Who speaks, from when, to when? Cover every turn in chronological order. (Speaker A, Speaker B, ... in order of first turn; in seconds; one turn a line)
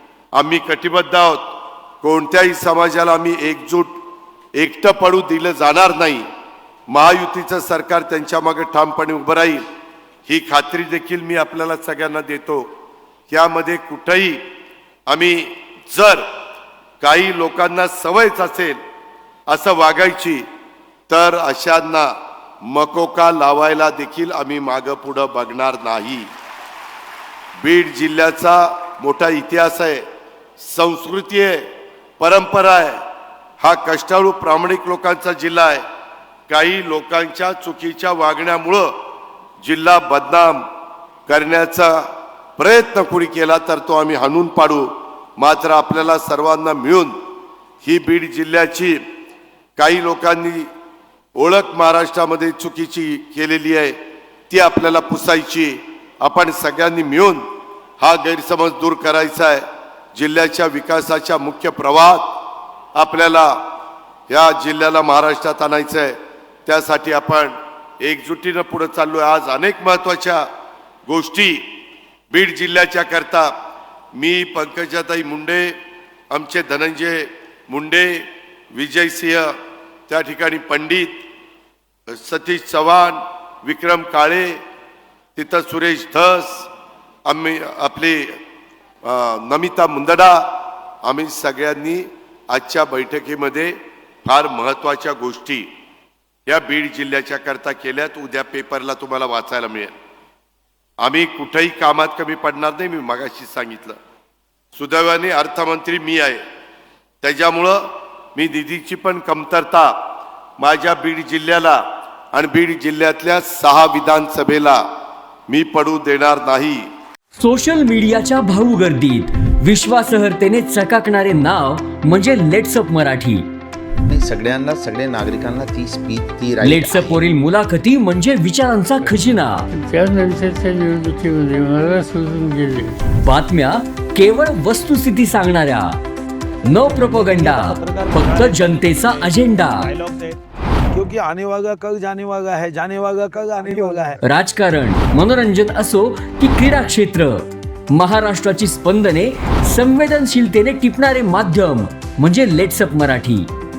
Speaker A: 0.3-4.0
Speaker A: 4.5-6.3
Speaker A: 6.9-9.6
Speaker A: 10.3-12.7
Speaker A: 13.3-14.4
Speaker A: 15.1-16.3
Speaker A: 17.0-18.8
Speaker A: 19.5-20.4
Speaker A: 21.1-22.1
Speaker A: 22.6-26.3
Speaker A: 27.6-30.0
Speaker A: 30.6-31.7
Speaker A: 32.2-33.0
Speaker A: 33.6-35.8
Speaker A: 36.5-38.9
Speaker A: 39.6-40.6
Speaker A: 41.3-47.2
Speaker A: 47.8-49.0
Speaker A: 49.8-50.7
Speaker A: 51.4-54.0
Speaker A: 54.5-57.4
Speaker A: 58.0-62.4
Speaker A: 63.0-63.6
Speaker A: 64.3-70.5
Speaker A: 71.1-71.7
Speaker A: 72.3-73.5
Speaker A: 74.2-75.8
Speaker A: 76.3-79.5
Speaker A: 80.1-81.2
Speaker A: 82.1-84.6
Speaker A: 85.4-86.7
Speaker A: 87.2-88.4
Speaker A: 89.0-95.7
Speaker A: 96.5-99.9
Speaker A: 101.0-104.0
Speaker A: 104.7-106.4
Speaker A: 107.2-110.0
Speaker A: 110.6-114.9
Speaker A: 115.5-116.9
Speaker B: 117.4-123.5
Speaker C: 124.0-127.2
Speaker B: 126.6-129.7
Speaker D: 129.7-132.9
Speaker B: 133.2-136.0
Speaker B: 136.7-139.9
Speaker E: 136.9-140.4
Speaker E: 140.9-144.2
Speaker B: 144.2-153.5